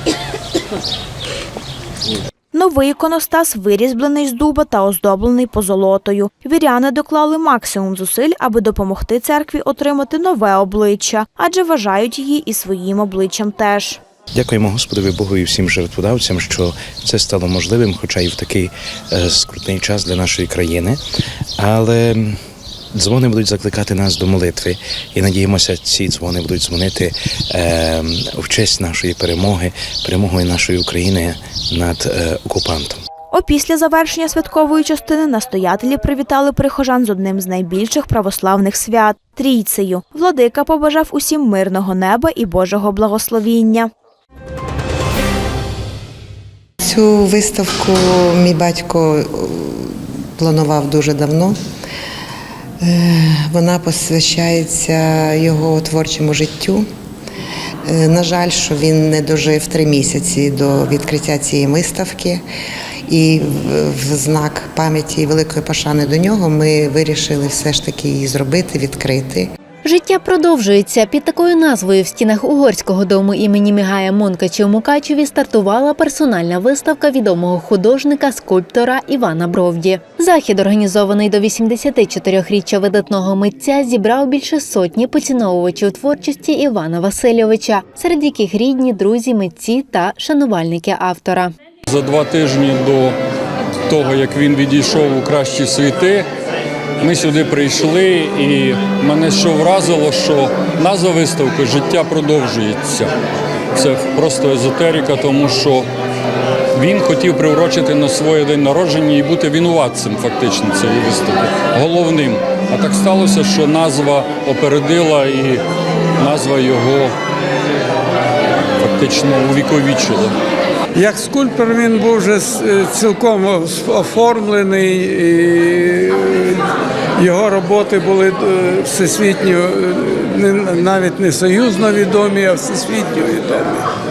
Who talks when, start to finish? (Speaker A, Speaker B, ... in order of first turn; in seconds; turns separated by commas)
Speaker A: 2.5-14.0, Speaker B: 14.3-21.0, Speaker B: 21.6-22.4, Speaker B: 22.9-33.0, Speaker A: 33.3-43.9, Speaker C: 46.8-51.6, Speaker C: 52.8-56.9, Speaker C: 57.9-62.4, Speaker C: 63.1-69.5, Speaker D: 69.8-91.5, Speaker E: 91.9-93.1, Speaker E: 93.9-96.2, Speaker E: 97.0-103.1, Speaker E: 103.8-105.9, Speaker E: 106.8-115.6, Speaker E: 116.2-117.1, Speaker E: 118.8-120.3, Speaker F: 121.0-126.6, Speaker F: 127.2-133.9